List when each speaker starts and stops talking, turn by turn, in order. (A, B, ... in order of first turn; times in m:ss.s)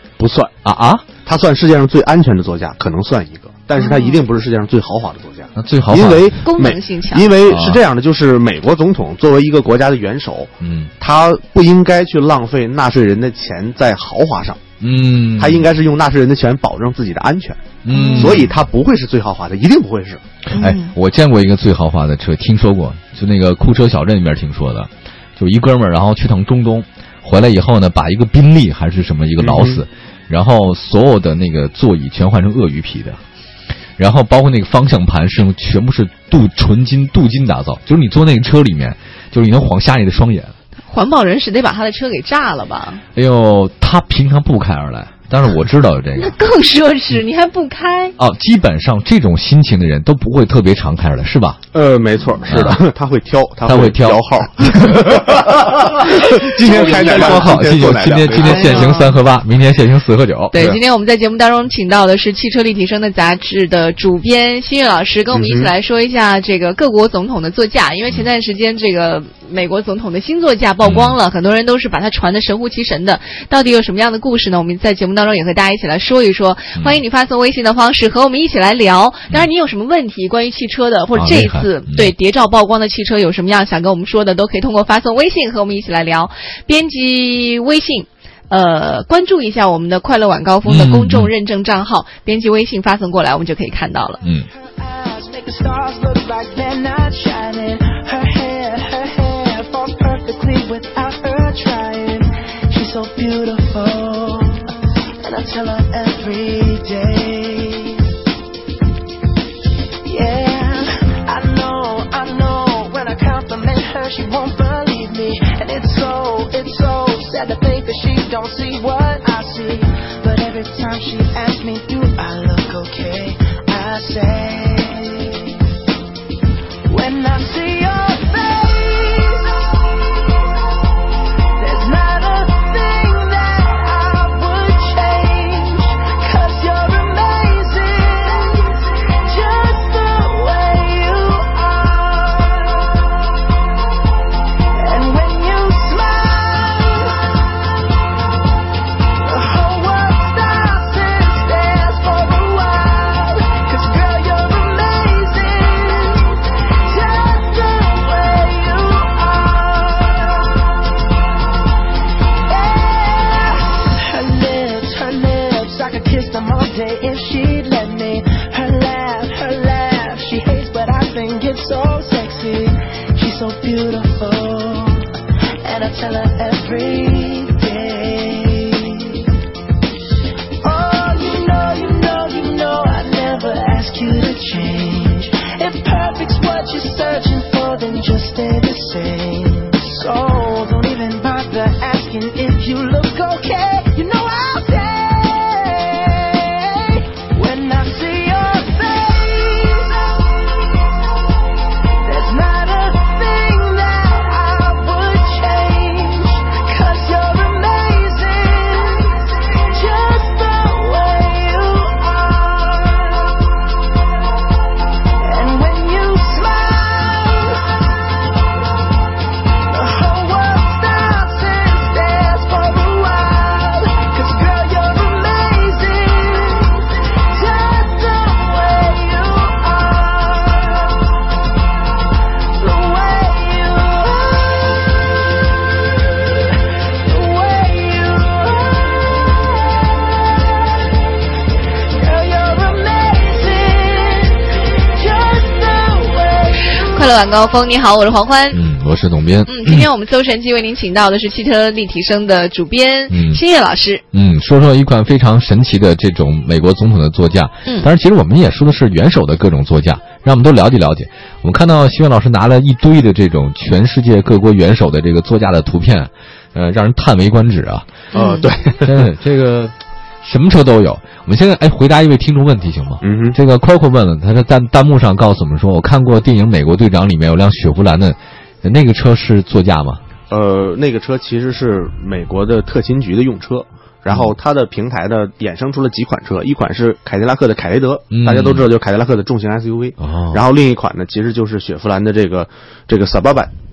0:00.2-0:00.5 A
0:00.6-0:01.1 B
0:01.2-0:14.6 A
0:03.8-0:04.2 C
0:05.6-0:06.4 B
0:06.4-0:07.3 C
0:07.4-0:07.8 B
0:10.6-0:10.9 B
0:14.8-0:15.7 B
0:15.4-0:20.2 A
0:17.8-0:18.5 B
0:17.9-0:18.4 C
0:20.5-0:33.2 B
0:20.5-0:20.9 C
0:29.4-0:29.8 A
0:34.0-0:40.5 B
0:40.9-0:43.0 C
0:43.2-0:46.3 B
0:46.2-0:48.2 C
0:48.2-0:51.6 B
0:51.7-0:59.0 A
0:52.5-0:52.8 B
0:53.6-1:00.8 B
0:56.5-0:57.6 C
0:58.4-0:59.2 C
1:00.5-1:34.2 C
1:05.3-1:05.7 A
1:10.8-1:11.2 B
1:16.8-1:17.0 B
1:21.2-1:22.1 B
1:30.7-1:31.3 B
1:34.2-1:34.5 B
1:34.6-1:48.1 D
1:50.0-2:05.6 D
2:06.9-2:10.7 D
2:11.6-2:23.4 D
2:24.7-2:27.5 D
2:29.2-2:40.8 D
2:42.4-2:59.3 D
3:00.6-3:21.0 D
3:22.0-3:33.7 D
3:35.2-3:38.3 D
3:39.7-3:51.1 D
3:52.6-4:00.9 D
4:01.9-4:06.8 D
4:06.8-4:08.6 C
4:08.5-4:09.9 B
4:09.5-4:14.0 C
4:13.1-4:13.4 B
4:14.1-4:27.9 B
4:28.1-4:28.5 C
4:28.1-4:29.1 A
4:28.8-4:40.0 B
4:33.0-4:33.4 A
4:40.3-4:53.5 A
4:48.1-4:48.6 B
4:50.0-4:50.4 B